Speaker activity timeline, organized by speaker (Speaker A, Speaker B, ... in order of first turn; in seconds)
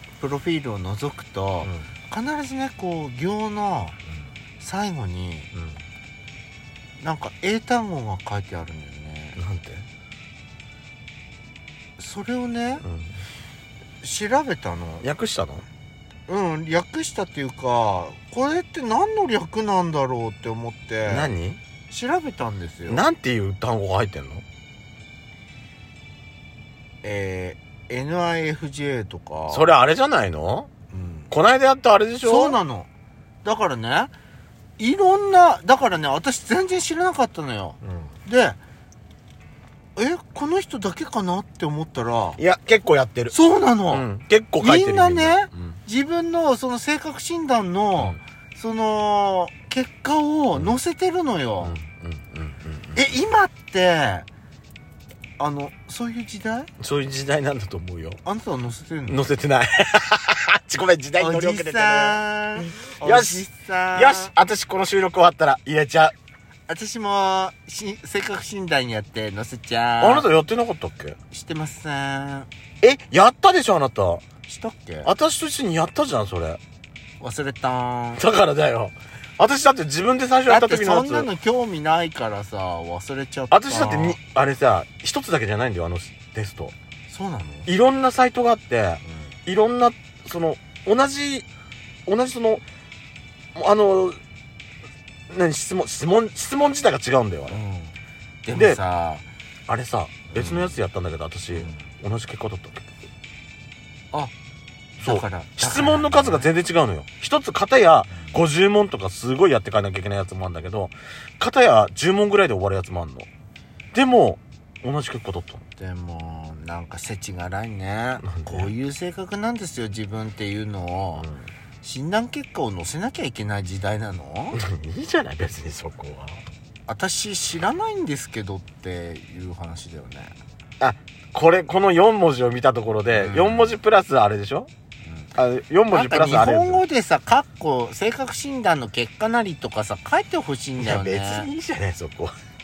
Speaker A: 0.2-4.0, 4.6-5.5, 7.0-9.4, 12.0-12.8, 14.0-15.1, 16.3-21.3, 21.9-23.0, 27.0-29.7, 30.9-31.3, 32.2-32.9, 33.4-34.1, 34.8-38.6, 40.0-42.4, 43.3-51.8, 53.0-54.3, 55.4-56.7, 58.2-59.2, 61.2-64.3, 66.7-70.3, 71.3-72.5, 74.5-75.1, 77.2-78.2, 80.5-84.2, 87.1-87.7, 89.0-89.4, 97.5-99.2, 100.3-100.8, 101.5-101.9, 105.0-106.5, 108.1-108.4, 115.8-121.3, 121.8-124.6, 126.9-130.3, 133.1-133.8, 135.1-135.3, 135.9-141.5
Speaker B: 1.6-1.9, 5.5-5.8, 9.4-9.9, 12.8-13.2, 15.0-15.7, 21.1-21.6, 22.9-24.4, 29.5-30.7, 31.3-32.6, 37.8-38.1, 42.4-43.4, 43.9-45.8, 51.6-53.1, 56.8-58.2, 59.1-66.2, 70.0-71.2, 72.8-74.2, 75.1-76.6, 78.2-81.3, 83.5-86.8, 87.7-91.5, 92.1-92.6, 93.5-94.2, 95.3-97.6, 98.5-98.8, 99.7-102.9, 105.0-113.3, 113.9-115.6, 118.2-118.7, 121.2-121.5, 124.5-126.4, 130.8-134.7, 135.3-136.8, 140.8-142.4